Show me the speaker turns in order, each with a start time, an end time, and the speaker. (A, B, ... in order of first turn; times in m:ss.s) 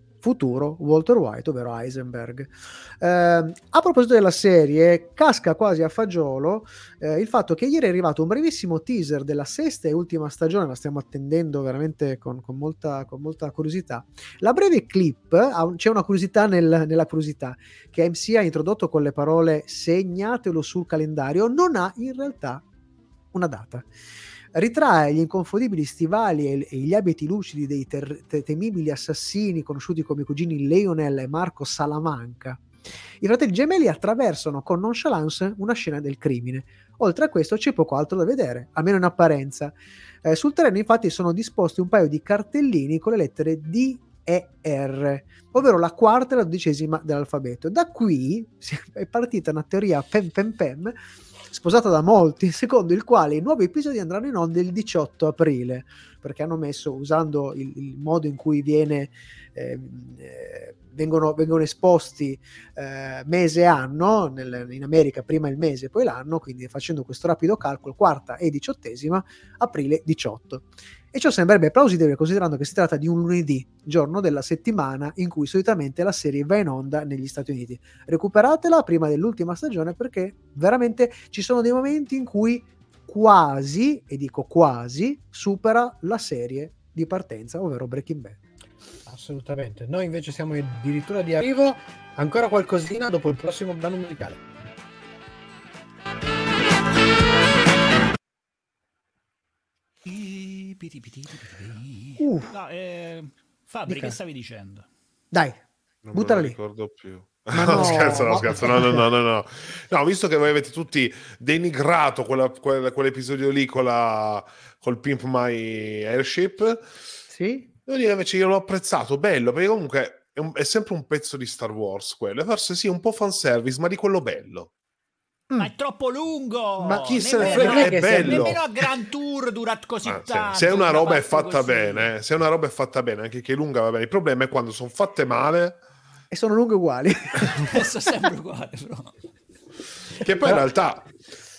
0:00.2-0:22.6 A
0:23.3-0:23.9 A
0:24.5-0:32.6 A
0:33.2-0:51.0 A
0:51.5-1:28.4 A
1:29.0-1:34.4 B
1:40.0-1:44.8 C
1:42.2-1:42.5 A
1:43.9-1:44.2 A
1:45.3-1:45.6 A
1:46.0-1:56.8 D
1:46.1-1:46.6 A
1:47.5-1:49.0 A
1:47.7-1:48.5 B
1:57.3-1:57.7 A
1:57.9-2:04.7 D
2:05.6-2:12.1 C
2:06.8-2:08.1 A
2:07.4-2:08.6 B
2:07.5-2:08.6 D
2:10.0-2:15.8 D
2:16.3-2:17.6 A
2:17.7-2:19.1 C
2:20.2-2:21.1 D
2:20.4-2:20.7 B